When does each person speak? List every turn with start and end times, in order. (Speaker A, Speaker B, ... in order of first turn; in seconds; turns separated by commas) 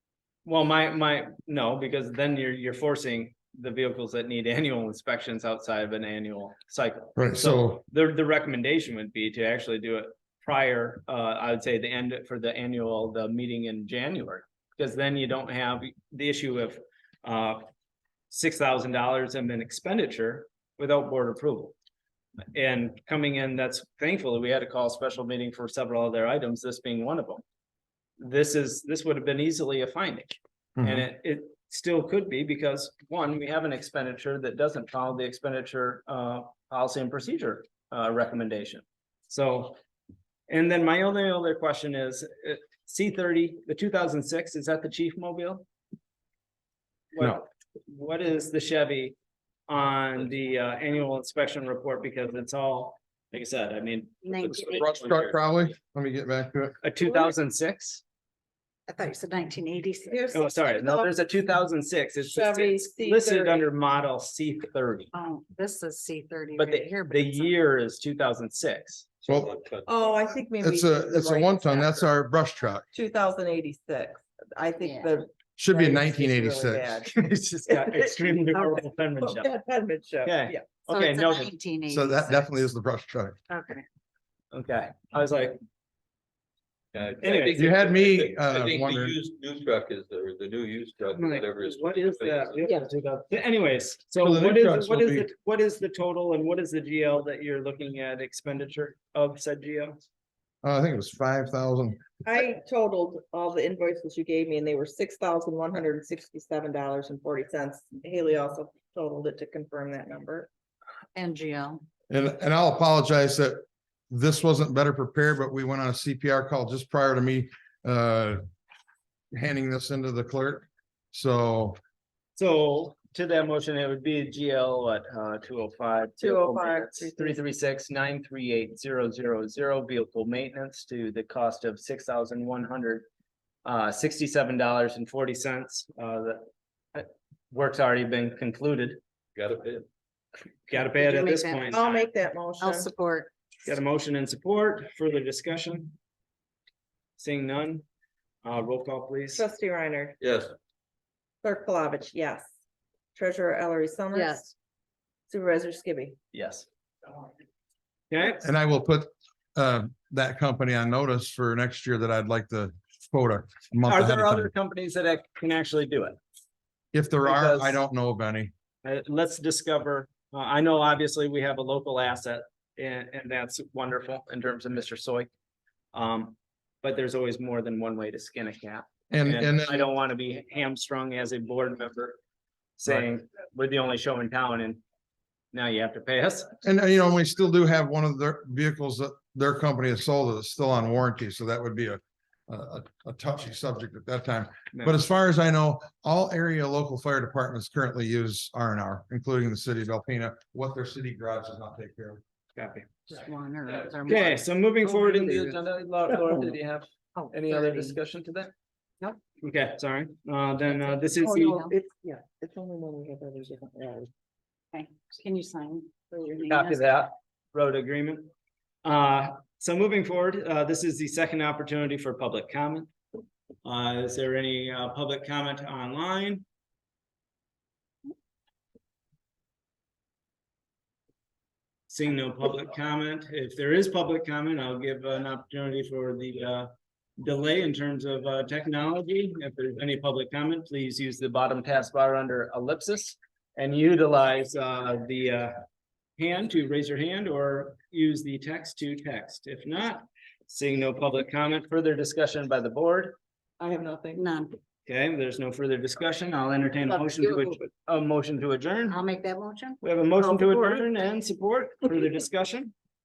Speaker A: 0.5-17.6, Speaker B: 7.2-7.8, Speaker A: 18.3-21.8, Speaker A: 22.5-27.4, Speaker A: 28.2-39.8, Speaker B: 30.8-31.1, Speaker A: 40.5-45.6, Speaker A: 47.1-49.2, Speaker A: 49.7-54.2, Speaker C: 54.2-54.9, Speaker D: 54.4-55.4, Speaker B: 54.6-56.8, Speaker A: 56.8-58.0, Speaker C: 58.9-60.5, Speaker E: 60.1-61.1, Speaker A: 60.3-65.1, Speaker E: 62.2-63.6, Speaker C: 65.1-67.5, Speaker A: 66.6-69.3, Speaker D: 69.3-69.9, Speaker E: 69.9-72.1, Speaker B: 70.6-72.9, Speaker E: 72.9-77.1, Speaker C: 74.8-75.1, Speaker B: 75.6-76.9, Speaker A: 77.0-79.5, Speaker E: 77.7-80.8, Speaker A: 80.2-81.5, Speaker C: 80.9-82.5, Speaker B: 81.9-83.4, Speaker C: 83.5-83.8, Speaker A: 84.5-85.6, Speaker D: 86.9-92.8, Speaker A: 87.2-87.8, Speaker B: 87.5-89.2, Speaker A: 91.2-100.0, Speaker B: 94.2-95.3, Speaker B: 100.6-102.0, Speaker E: 102.2-110.5, Speaker C: 111.2-111.8, Speaker B: 112.1-118.4, Speaker B: 119.3-121.8, Speaker A: 122.4-133.1, Speaker E: 126.2-127.4, Speaker A: 133.7-139.0, Speaker D: 139.3-139.9, Speaker A: 140.7-142.1, Speaker C: 140.9-141.8, Speaker E: 141.7-142.9, Speaker C: 142.6-143.3, Speaker A: 143.7-145.9, Speaker A: 147.2-147.8, Speaker A: 148.4-149.4, Speaker E: 149.3-150.2, Speaker D: 150.2-150.5, Speaker E: 151.4-152.5, Speaker E: 153.2-154.5, Speaker C: 154.1-154.5, Speaker E: 155.3-156.2, Speaker A: 156.3-156.7, Speaker A: 158.1-158.4, Speaker B: 158.4-164.5, Speaker A: 163.9-166.2, Speaker B: 166.9-168.5, Speaker A: 167.2-167.8, Speaker A: 168.8-175.3, Speaker A: 175.9-182.2, Speaker B: 179.1-179.8, Speaker A: 182.8-184.8, Speaker A: 185.5-186.5, Speaker B: 186.6-202.2, Speaker A: 194.7-195.0, Speaker A: 202.6-202.9, Speaker C: 203.1-205.6, Speaker A: 204.1-208.5, Speaker C: 207.2-208.0, Speaker A: 209.4-211.6, Speaker C: 210.7-211.7, Speaker E: 211.2-214.1, Speaker C: 214.7-216.8, Speaker A: 216.4-218.3, Speaker A: 218.8-222.9, Speaker A: 223.7-226.4, Speaker A: 231.9-245.6, Speaker A: 246.2-253.2, Speaker E: 253.6-254.2, Speaker C: 254.1-254.5, Speaker A: 254.9-259.0, Speaker C: 257.2-257.5, Speaker C: 258.9-259.8, Speaker A: 259.8-262.7, Speaker E: 260.2-260.5